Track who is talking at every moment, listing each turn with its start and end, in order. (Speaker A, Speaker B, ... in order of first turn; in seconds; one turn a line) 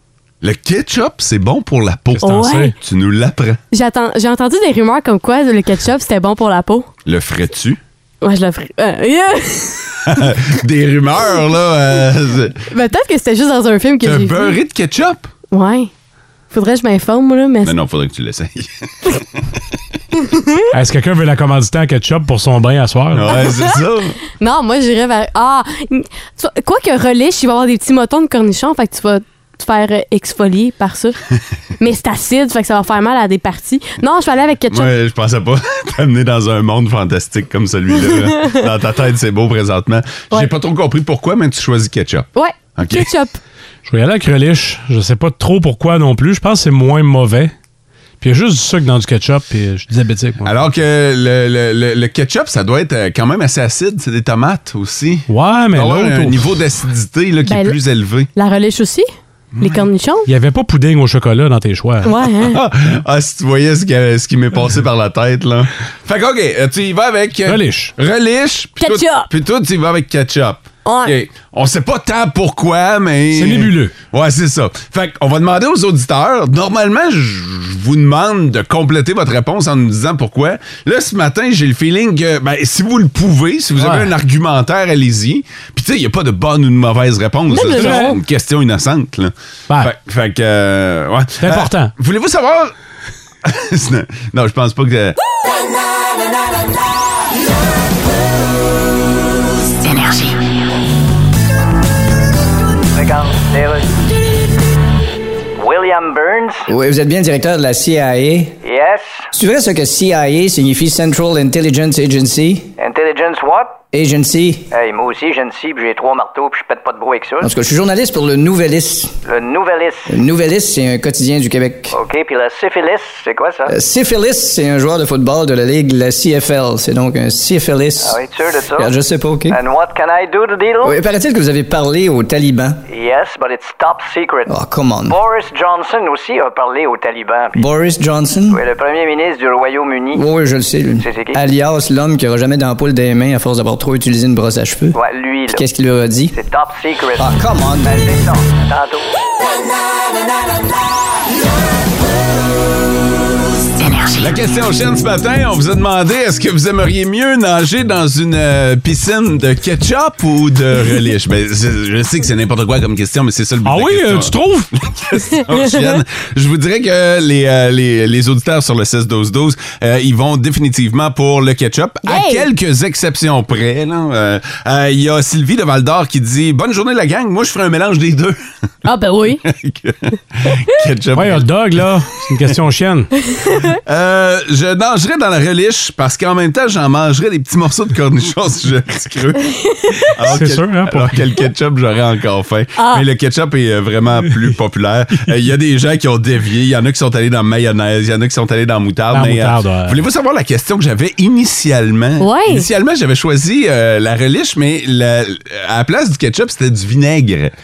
Speaker A: 0.4-3.6
Speaker B: 2.1-2.7
Speaker C: 2.2-2.7
Speaker C: 3.7-6.9
Speaker A: 7.0-7.8
Speaker C: 8.2-10.2
Speaker A: 10.1-12.6
Speaker C: 12.7-14.6
Speaker A: 14.0-15.3
Speaker C: 15.5-15.9
Speaker C: 16.5-17.7
Speaker A: 17.6-19.4
Speaker C: 20.3-20.6
Speaker B: 20.7-23.3
Speaker A: 23.1-24.1
Speaker C: 23.3-23.8
Speaker C: 24.4-31.2
Speaker C: 31.8-34.9
Speaker A: 34.7-43.1
Speaker C: 42.3-43.4
Speaker B: 43.8-47.5
Speaker B: 48.2-50.6
Speaker A: 50.4-58.3
Speaker B: 55.3-56.4
Speaker C: 57.4-57.8
Speaker C: 58.3-59.1
Speaker A: 59.5-59.8
Speaker C: 59.6-60.3
Speaker B: 60.3-62.1
Speaker C: 62.0-62.6
Speaker A: 62.4-92.7
Speaker B: 67.5-67.9
Speaker C: 68.8-69.3
Speaker C: 70.8-71.1
Speaker B: 73.3-73.9
Speaker B: 83.8-84.1
Speaker C: 87.5-88.1
Speaker B: 87.7-88.1
Speaker B: 91.4-91.9
Speaker A: 93.4-95.2
Speaker D: 102.9-104.0
Speaker D: 105.6-106.7
Speaker E: 106.7-108.5
Speaker D: 108.6-109.3
Speaker E: 109.3-112.7
Speaker D: 112.8-113.8
Speaker E: 113.9-114.7
Speaker D: 114.7-117.5
Speaker E: 117.4-119.1
Speaker D: 119.2-120.1
Speaker E: 120.1-121.9
Speaker D: 121.9-123.7
Speaker E: 123.7-128.2
Speaker D: 128.0-128.9
Speaker E: 128.8-129.6
Speaker D: 129.5-131.0
Speaker E: 130.8-132.8
Speaker D: 132.9-134.5
Speaker E: 134.5-135.2
Speaker D: 135.0-137.6
Speaker E: 137.6-138.6
Speaker D: 138.5-140.2
Speaker E: 140.1-145.0
Speaker D: 141.0-141.4
Speaker D: 144.9-145.7
Speaker E: 145.5-146.3
Speaker D: 146.3-149.0
Speaker E: 147.2-147.9
Speaker A: 154.1-178.4
Speaker B: 163.6-164.7
Speaker C: 165.5-165.8
Speaker C: 172.0-172.5
Speaker C: 178.8-179.4
Speaker A: 179.4-181.8
Speaker B: 181.1-183.1
Speaker C: 183.3-183.8
Speaker A: 183.8-189.5
Speaker A: 190.1-207.5
Speaker B: 190.3-191.2
Speaker C: 192.8-193.0
Speaker B: 199.1-200.0
Speaker C: 202.2-202.7